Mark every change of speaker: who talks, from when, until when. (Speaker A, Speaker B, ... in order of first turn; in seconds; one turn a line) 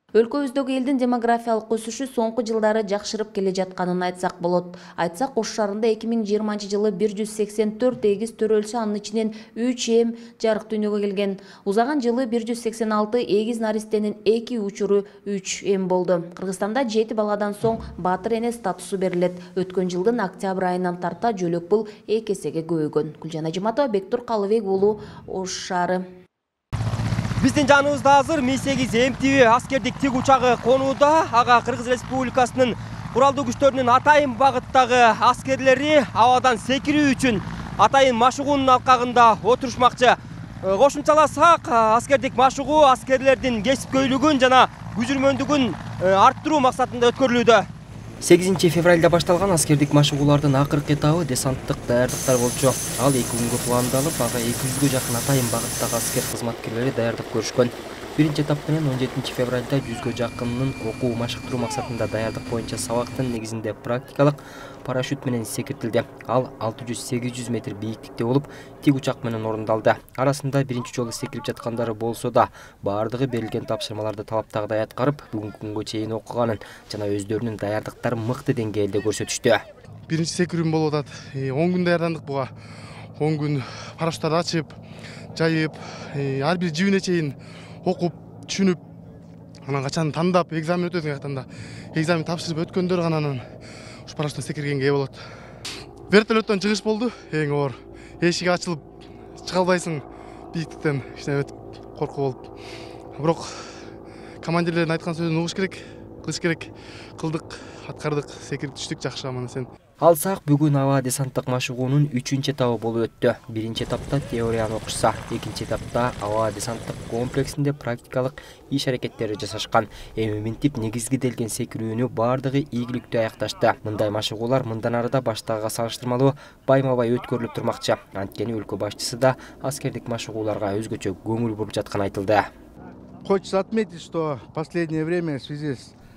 Speaker A: 0.1-26.0
Speaker B: 27.4-47.7
Speaker C: 48.2-79.6
Speaker D: 80.1-82.5
Speaker D: 83.2-84.7
Speaker D: 85.3-88.8
Speaker D: 89.7-93.4
Speaker D: 94.1-95.2
Speaker D: 96.1-98.8
Speaker D: 99.4-102.4
Speaker D: 103.2-103.7
Speaker D: 104.4-109.7
Speaker C: 110.0-132.5
Speaker E: 133.2-135.9